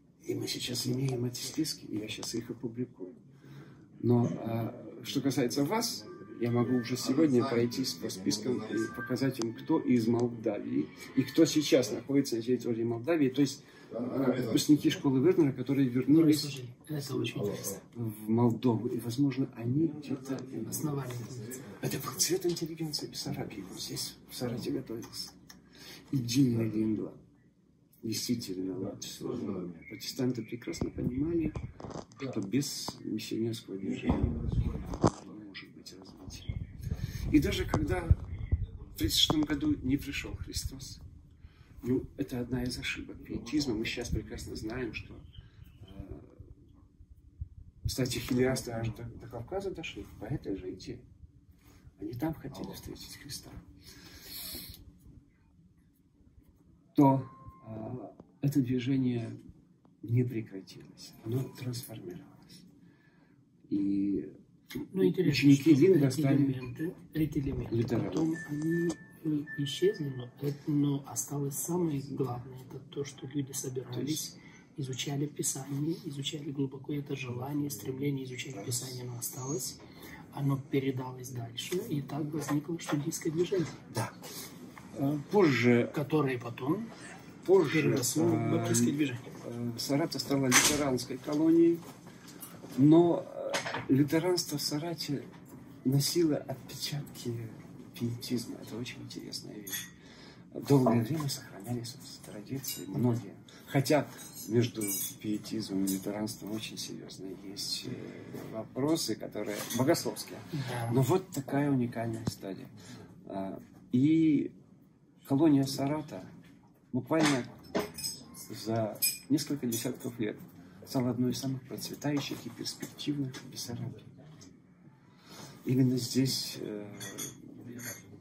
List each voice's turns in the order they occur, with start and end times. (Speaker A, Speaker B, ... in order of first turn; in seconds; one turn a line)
Speaker A: 0.2-3.2
Speaker A: 4.0-13.6
Speaker A: 14.2-21.1
Speaker B: 16.1-17.8
Speaker B: 20.7-21.8
Speaker A: 21.8-25.3
Speaker A: 26.1-27.2
Speaker A: 28.0-31.6
Speaker A: 32.2-36.5
Speaker A: 37.3-38.2
Speaker A: 38.9-41.0
Speaker A: 41.8-45.3
Speaker A: 45.8-46.4
Speaker A: 47.8-51.0
Speaker A: 52.0-53.7
Speaker A: 56.9-59.4
Speaker A: 60.0-62.6
Speaker A: 63.7-64.3
Speaker A: 64.9-66.6
Speaker B: 64.9-79.8
Speaker A: 67.7-68.4
Speaker A: 73.9-74.3
Speaker A: 78.5-79.0
Speaker B: 80.3-83.8
Speaker A: 83.9-84.2
Speaker A: 84.9-86.0
Speaker B: 85.9-86.9
Speaker A: 87.4-91.8
Speaker B: 87.6-89.3
Speaker A: 92.7-95.3
Speaker A: 95.8-99.9
Speaker A: 100.5-112.7
Speaker B: 110.5-111.0
Speaker A: 113.2-114.5
Speaker A: 115.2-116.3
Speaker A: 116.9-117.6
Speaker A: 118.5-124.1
Speaker A: 125.6-127.7